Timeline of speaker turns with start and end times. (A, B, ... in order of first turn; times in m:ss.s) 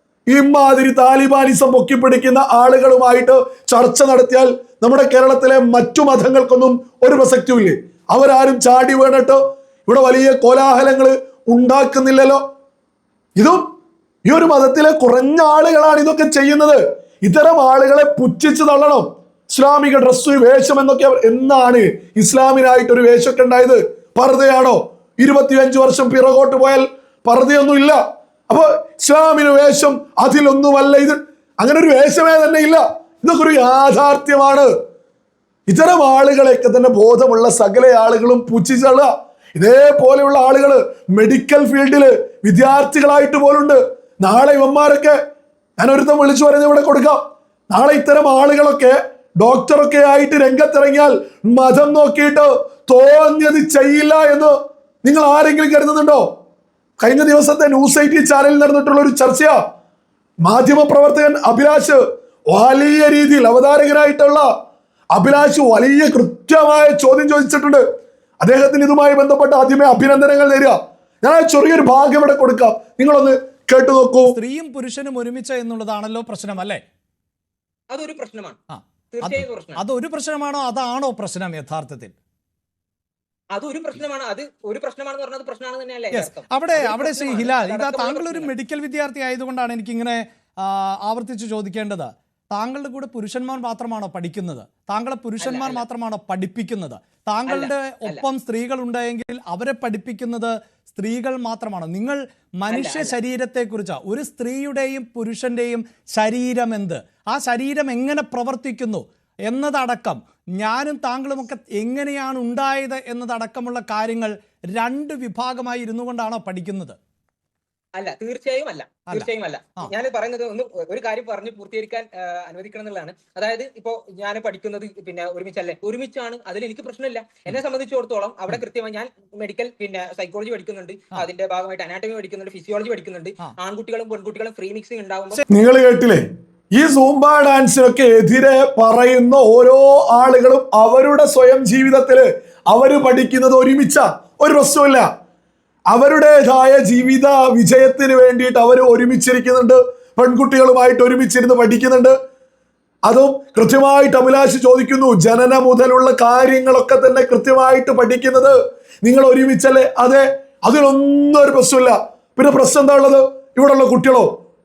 0:00.3-0:12.4 A
0:13.4-0:13.6 A
0:14.2-0:34.7 A
0:35.7-0:45.2 A
0:45.8-0:47.2 A
0:47.7-0:56.2 A
0:57.0-0:59.6 A
1:00.4-1:04.5 A
1:05.1-1:07.8 A
1:08.4-1:14.4 A
1:14.3-1:16.8 B
1:17.9-1:18.6 C
1:18.7-1:22.1 B
1:19.1-1:19.8 C
1:23.5-1:28.5 C
1:26.1-1:57.0 B
1:35.4-1:35.8 C
1:37.5-1:38.2 C
1:42.7-1:43.1 C
1:58.0-2:15.4 C
2:15.5-2:25.0 A
2:25.9-2:32.1 A
2:33.0-2:44.3 A